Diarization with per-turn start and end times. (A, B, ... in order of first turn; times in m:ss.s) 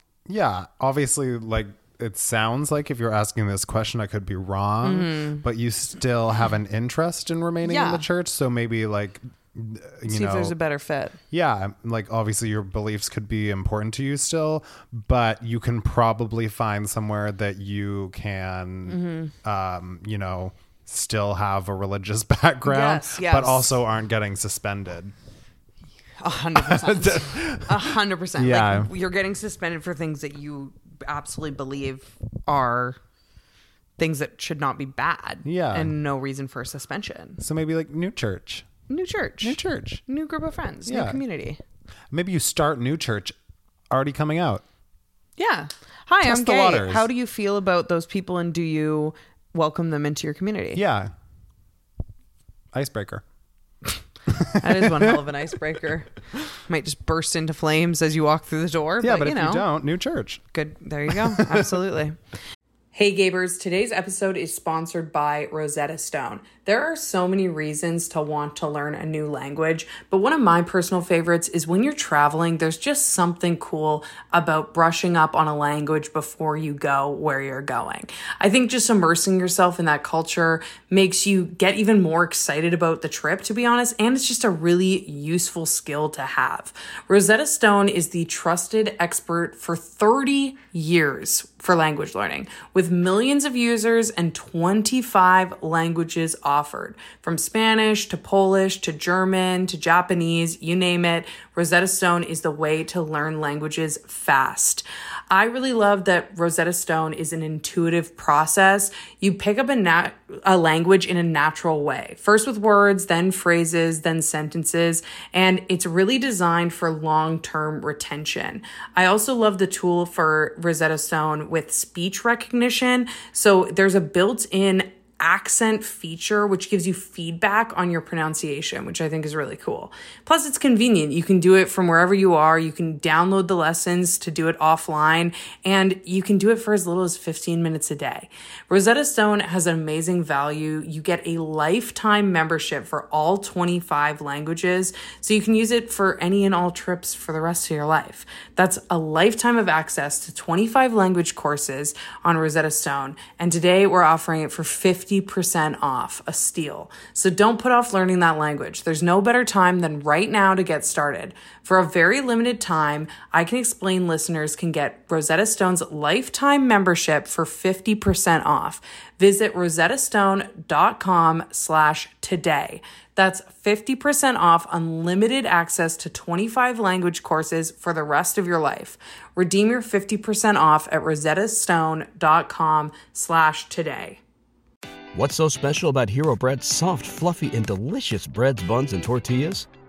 0:00.3-0:10.6 A
0:04.8-0:05.4 B
0:07.6-0:08.0 B
0:10.1-0:11.2 B
0:11.3-0:25.1 A
0:18.9-0:19.3 B
0:22.6-0:23.8 B
0:26.2-0:33.0 B
0:26.6-0:28.9 A
0:34.0-0:37.4 B
0:35.4-0:35.9 A
0:37.4-0:38.7 A
0:38.9-0:41.6 B
0:39.4-0:40.0 A
0:40.9-0:41.2 A
0:42.1-0:43.4 A
0:43.9-0:44.6 A
0:45.4-0:50.8 B
0:46.2-0:47.1 A
0:50.8-0:51.1 A
0:52.7-0:53.2 A
0:54.3-0:55.2 A
0:54.5-0:59.6 B
0:59.0-1:00.4 A
1:00.5-1:02.2 B
1:01.1-1:01.8 A
1:02.9-3:04.2 B
3:05.1-3:09.7 C